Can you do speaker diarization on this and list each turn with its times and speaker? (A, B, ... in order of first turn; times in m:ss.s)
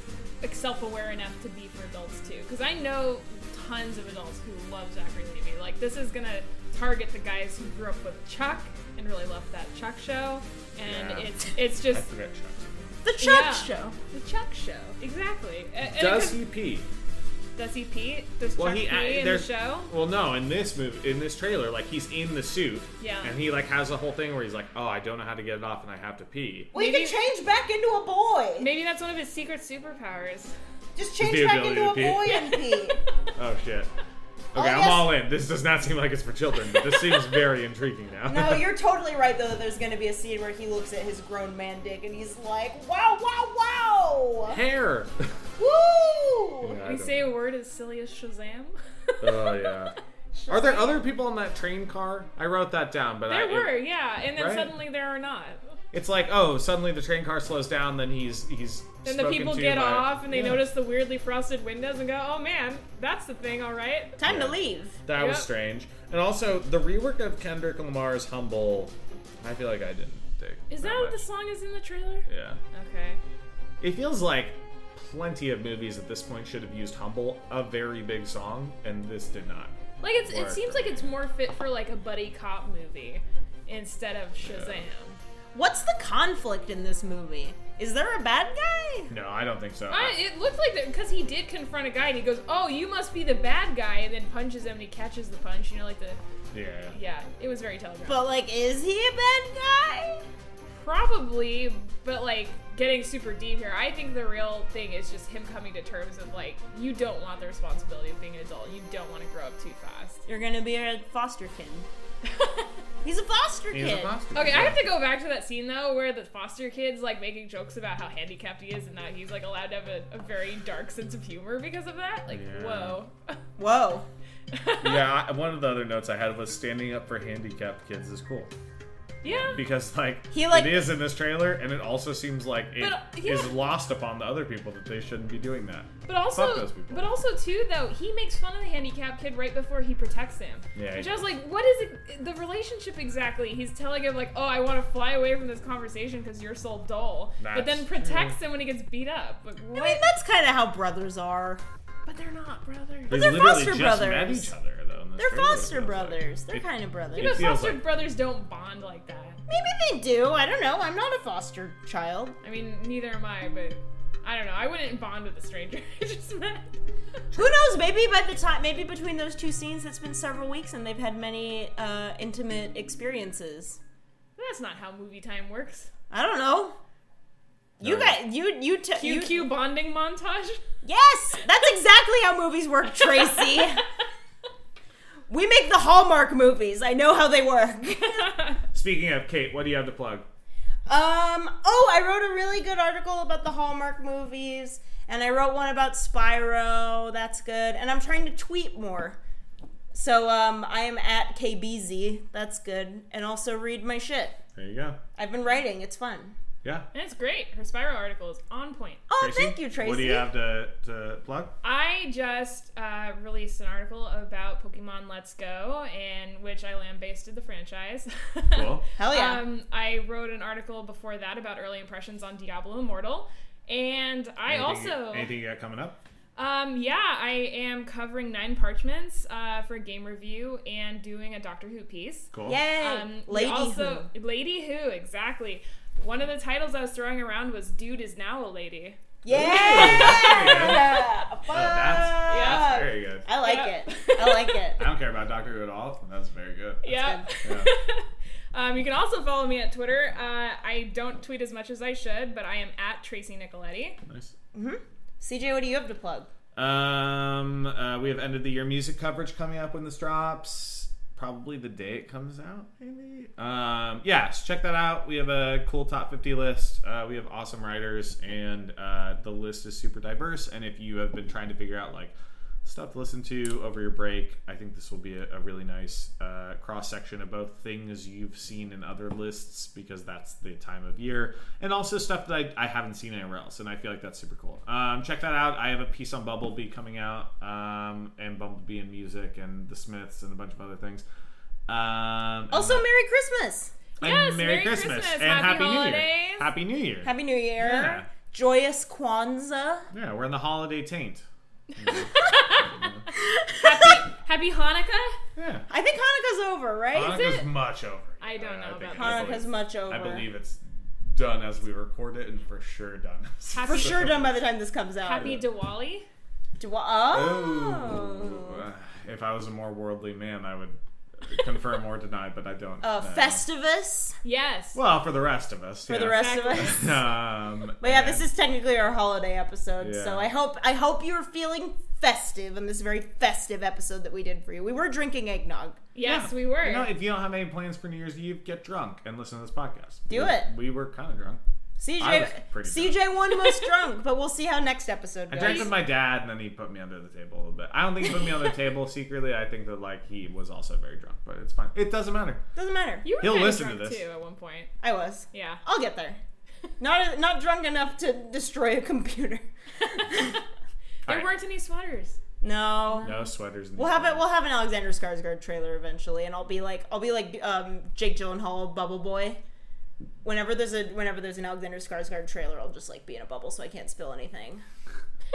0:00.4-0:12.1 A
0:10.8-0:13.0 B
0:13.0-0:14.0 C
0:13.2-0:16.4 A
0:15.8-0:16.9 B
0:17.6-0:19.9 A
0:18.6-0:26.7 B
0:23.0-0:23.4 A
0:26.7-0:27.2 A
0:26.7-0:28.7 C
0:28.6-0:30.5 A
0:31.0-0:33.0 C
0:31.2-0:32.4 B
0:32.3-0:32.8 A
0:33.4-0:33.9 B
0:34.5-0:38.6 B
0:34.5-0:35.1 C
0:38.3-0:44.6 C
0:44.5-0:45.3 B
0:45.6-0:46.7 C
0:46.6-0:47.3 B
0:46.8-0:49.8 A
0:49.2-0:49.9 B
0:50.3-0:50.9 C
0:50.5-0:53.8 B
0:53.3-0:55.8 A
0:54.4-0:54.7 B
0:55.9-1:00.7 B
0:59.0-1:04.1 A
1:04.2-1:05.0 C
1:04.2-1:11.2 B
1:05.1-1:05.5 A
1:10.7-1:13.2 A
1:12.3-1:12.6 B
1:13.8-1:19.7 B
1:20.0-1:25.2 A
1:20.3-1:21.1 B
1:24.4-1:24.8 B
1:25.5-1:29.1 C
1:29.1-1:30.2 B
1:29.9-1:36.2 A
1:36.5-1:37.0 B
1:36.9-1:38.2 A
1:38.0-1:40.3 C
1:40.7-1:50.2 A
1:50.2-1:51.9 C
1:52.2-1:52.7 A
1:53.0-1:54.1 C
1:53.7-1:54.8 B
1:54.3-2:03.4 A
2:02.3-2:03.0 B
2:03.6-2:04.1 C
2:04.5-2:05.0 A
2:04.8-2:08.5 B
2:09.2-2:09.6 A
2:09.2-2:17.1 B
2:10.3-2:10.9 C
2:12.8-2:13.6 A
2:16.0-2:30.0 A
2:20.7-2:21.1 B
2:27.4-2:28.4 B
2:29.7-2:31.6 C
2:32.0-2:33.5 A
2:33.1-2:37.8 B
2:33.1-2:34.5 C
2:35.2-2:37.4 C
2:37.1-2:39.4 A
2:39.5-2:42.4 C
2:42.4-2:46.8 A
2:47.3-2:53.8 C
2:54.4-2:55.9 A
2:56.1-2:56.8 C
2:57.8-2:59.5 C
2:57.8-2:58.2 B
2:59.0-3:00.6 A
3:00.8-3:03.8 C
3:05.3-3:08.5 C
3:08.2-3:08.6 A
3:08.7-3:10.2 B
3:10.9-3:19.2 C
3:19.9-3:24.4 C
3:24.6-3:25.0 B
3:25.2-3:26.3 C
3:26.9-3:29.0 A
3:29.1-3:30.3 C
3:29.2-3:31.5 B
3:31.6-3:45.3 A
3:38.5-3:38.8 B
3:39.0-3:39.5 C
3:44.5-3:46.0 B
3:46.4-3:59.0 A
3:52.3-3:52.6 B
3:52.4-3:54.1 C
3:59.2-4:04.8 C
3:59.3-4:03.3 B
3:59.5-4:01.0 A
4:02.3-4:02.8 A
4:03.4-4:04.6 A
4:04.8-4:06.9 B
4:06.8-4:14.0 A
4:06.9-4:07.2 C
4:07.4-4:07.7 B
4:14.0-4:14.3 B
4:14.5-4:16.3 C
4:16.5-4:32.1 B
4:32.6-4:51.0 B
4:51.7-4:52.8 B
4:52.5-4:53.7 C
4:54.0-4:56.5 A
4:54.0-4:58.1 B
4:57.0-4:59.9 C
4:59.9-5:01.2 B
5:01.8-5:03.1 B
5:01.9-5:02.7 A
5:03.1-5:04.0 C
5:03.5-5:05.2 A
5:05.4-5:05.6 B
5:05.7-5:07.3 C
5:06.9-5:14.4 B
5:07.1-5:07.4 A
5:08.2-5:09.4 A
5:09.0-5:10.3 C
5:13.5-5:14.0 A
5:13.6-5:15.4 C
5:15.0-5:16.1 A
5:15.2-5:15.4 B
5:16.6-5:18.6 C
5:17.1-5:23.4 B
5:22.8-5:24.1 C
5:24.2-5:24.8 A
5:24.7-5:28.2 B
5:25.9-5:26.9 C
5:26.0-5:26.9 A
5:27.8-5:35.8 C
5:29.8-5:30.3 B
5:35.9-5:36.9 A
5:36.0-5:41.4 B
5:40.1-5:40.5 C
5:41.8-5:45.7 C
5:42.0-5:43.0 B
5:45.3-5:52.4 B
5:45.4-5:45.8 A
5:52.5-5:53.1 C
5:53.0-5:54.7 A
5:53.2-5:54.0 B
5:54.8-5:56.2 C
5:55.3-5:55.6 A
5:56.8-6:00.4 C
6:01.0-6:02.2 A
6:02.4-6:03.1 C
6:03.0-6:04.3 B
6:03.8-6:09.4 C
6:10.2-6:14.6 C